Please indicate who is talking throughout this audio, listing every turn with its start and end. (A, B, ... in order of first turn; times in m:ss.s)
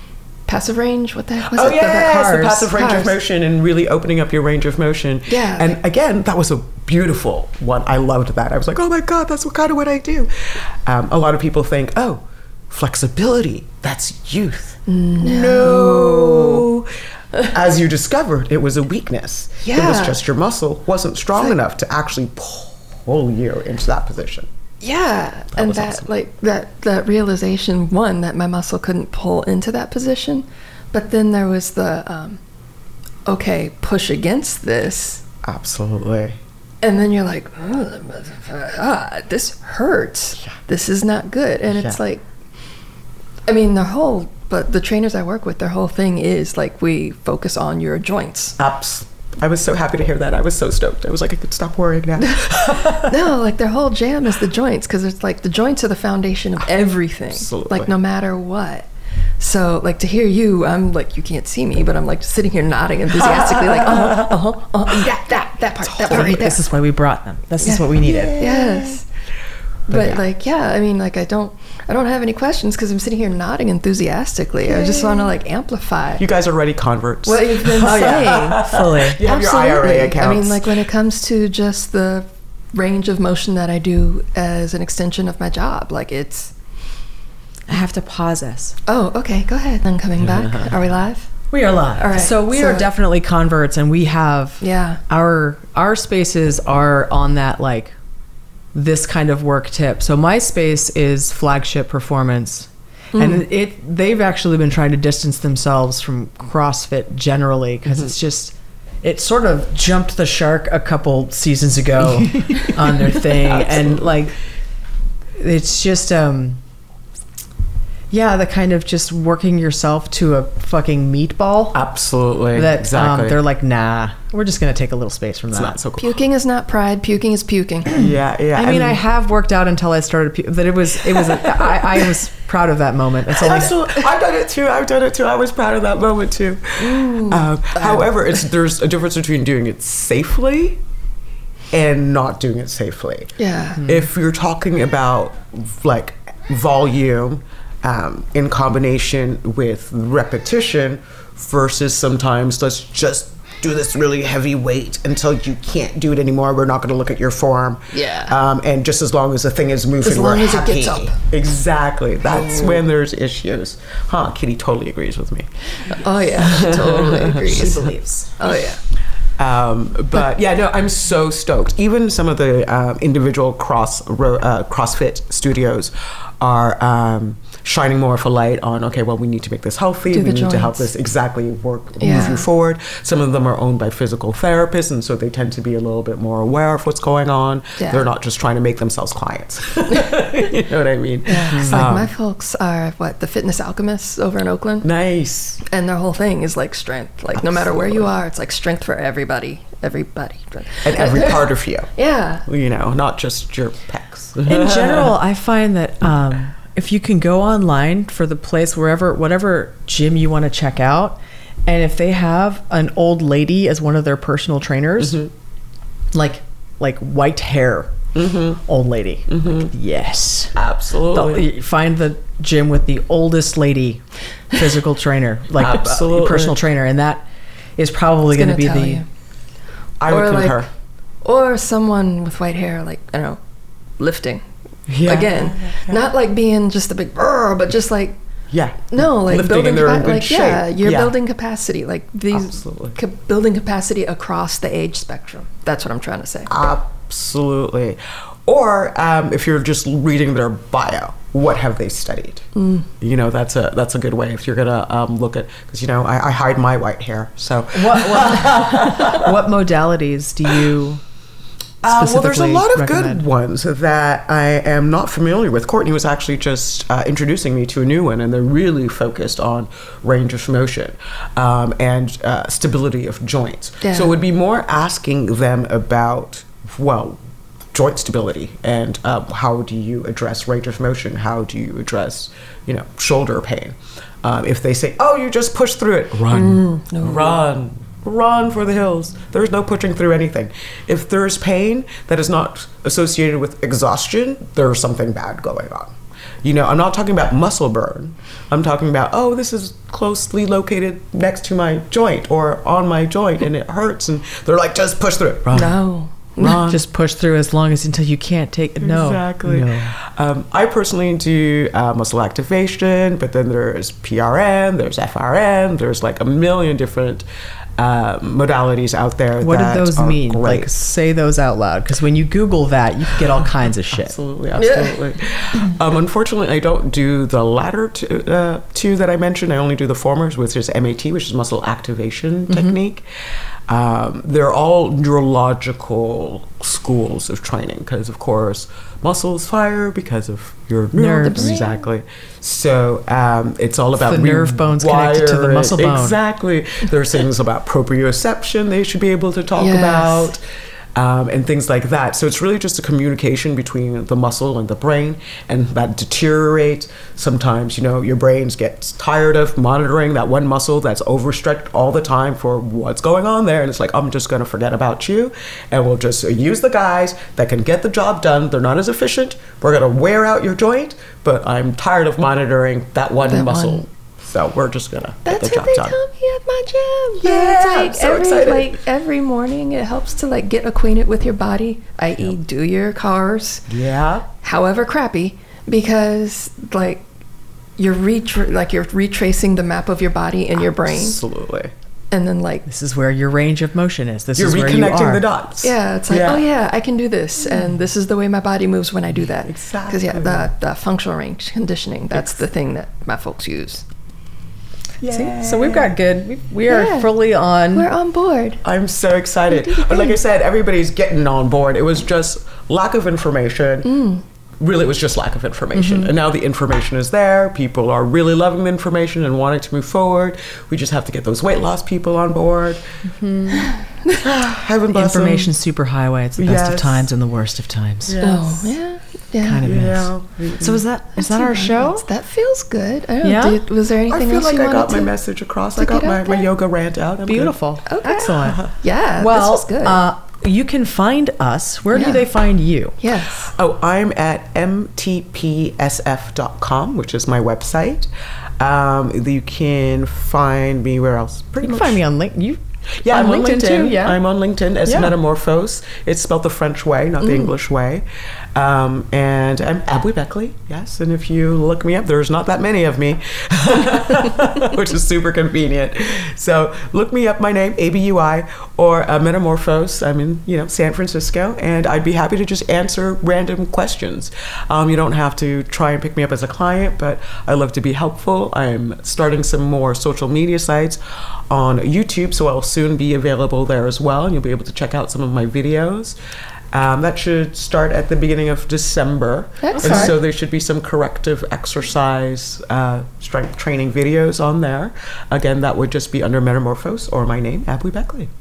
0:00.4-0:03.1 A
0:01.4-0:10.3 B
0:05.3-0:05.7 A
0:10.8-0:16.9 B
0:14.9-0:16.7 A
0:17.5-0:24.5 B
0:19.6-0:20.2 A
0:24.8-0:32.4 A
0:25.6-0:26.0 B
0:33.2-0:35.2 A
0:35.4-0:36.4 B
0:36.8-0:42.2 A
0:41.7-0:42.0 B
0:43.4-0:48.6 A
0:48.6-0:53.1 B
0:52.9-0:58.9 A
0:57.3-0:57.9 B
0:59.4-1:06.6 A
1:03.3-1:04.4 B
1:05.9-1:08.4 C
1:06.0-1:06.4 B
1:07.6-1:09.0 A
1:08.0-1:09.0 B
1:09.9-1:16.2 A
1:09.9-1:10.2 C
1:14.8-1:15.2 B
1:16.2-1:20.8 B
1:17.2-1:18.6 A
1:17.8-1:19.2 C
1:19.2-1:26.5 A
1:27.7-1:28.8 C
1:28.9-1:32.9 A
1:30.2-1:30.8 B
1:31.5-1:37.9 C
1:34.6-1:35.0 A
1:38.7-1:54.3 C
1:43.1-1:43.4 A
1:52.3-1:54.2 B
1:55.4-1:56.6 C
1:58.1-2:01.8 C
2:01.7-2:03.4 B
2:02.5-2:05.8 C
2:05.5-2:06.2 B
2:06.0-2:08.0 A
2:07.9-2:09.0 B
2:08.5-2:13.8 C
2:11.4-2:11.8 B
2:13.4-2:20.8 B
2:16.8-2:18.3 A
2:21.7-2:23.3 B
2:23.4-2:23.8 A
2:23.8-2:24.1 C
2:23.8-2:45.5 B
2:37.9-2:38.3 A
2:40.0-2:41.2 A
2:42.3-2:42.8 A
2:45.8-2:48.8 A
2:46.3-2:47.9 B
2:47.4-2:48.3 C
2:49.4-3:12.1 B
3:00.1-3:00.9 A
3:02.0-3:02.4 A
3:07.8-3:08.0 A
3:09.9-3:10.2 A
3:11.3-3:14.9 A
3:11.5-3:11.9 C
3:14.8-3:15.6 B
3:15.6-3:22.4 A
3:17.3-3:18.1 B
3:20.8-3:21.9 B
3:22.4-3:25.1 B
3:24.4-3:35.2 C
3:35.0-3:35.3 B
3:36.1-3:38.0 C
3:38.1-3:38.6 B
3:38.6-3:40.6 C
3:39.3-3:39.7 B
3:40.5-3:41.5 B
3:41.1-3:47.2 C
3:45.6-3:46.6 B
3:47.8-3:49.0 C
3:48.3-3:49.0 A
3:50.0-3:50.7 B
3:50.1-3:50.6 A
3:51.2-3:53.4 A
3:54.0-3:54.4 A
3:54.9-3:56.0 B
3:55.0-3:58.2 A
3:58.5-4:01.1 B
3:58.9-4:06.5 A
4:02.3-4:03.0 B
4:06.5-4:12.5 B
4:12.6-4:12.8 A
4:13.0-4:19.3 B
4:17.7-4:21.0 C
4:21.8-4:37.2 B
4:21.8-4:23.2 C
4:33.8-4:34.1 A
4:37.7-5:05.8 B
4:46.3-4:47.4 A
5:05.5-5:06.6 A
5:06.4-5:06.8 B
5:06.4-5:09.9 C
5:08.8-5:17.2 B
5:17.8-5:20.7 B
5:19.4-5:24.1 C
5:23.9-5:33.0 B
5:24.6-5:25.0 A
5:32.5-5:32.8 C
5:33.7-5:50.4 B
5:40.9-5:41.6 C
5:41.2-5:41.8 A
5:44.0-5:46.2 C
5:49.6-5:50.3 A
5:50.9-6:16.0 B
6:13.2-6:13.8 A
6:15.2-6:23.6 A
6:17.2-6:18.8 B
6:23.7-6:24.3 B
6:24.4-6:27.1 A
6:27.8-6:31.2 A
6:30.8-6:31.7 B
6:32.1-6:32.6 A
6:32.6-6:35.2 C
6:34.4-6:36.4 B
6:35.6-6:43.8 A
6:39.2-6:40.5 B
6:45.0-6:45.9 B
6:45.1-6:47.9 C
6:46.7-6:47.1 A
6:47.7-6:48.6 A
6:48.6-6:54.0 B
6:49.5-6:50.2 A
6:53.8-6:54.2 A
6:54.6-7:03.0 B
6:55.7-6:56.1 C
7:03.0-7:03.7 C
7:04.2-7:05.5 B
7:04.9-7:08.1 C
7:06.4-7:07.1 B
7:08.0-7:08.8 B
7:08.2-7:09.7 A
7:09.4-7:12.0 C
7:09.6-7:10.8 B
7:11.2-7:15.1 A
7:13.2-7:13.6 C
7:14.1-7:17.6 B
7:15.8-7:16.5 A
7:17.2-7:18.6 C
7:17.8-7:20.0 A
7:19.2-7:23.0 C
7:21.9-7:22.2 A
7:23.0-7:23.5 A
7:23.4-7:32.0 B
7:31.6-7:34.2 C
7:33.0-8:06.2 B
7:34.8-7:35.1 C
7:37.2-7:37.5 A
8:06.7-8:18.3 B
8:09.6-8:10.1 A
8:09.7-8:10.1 C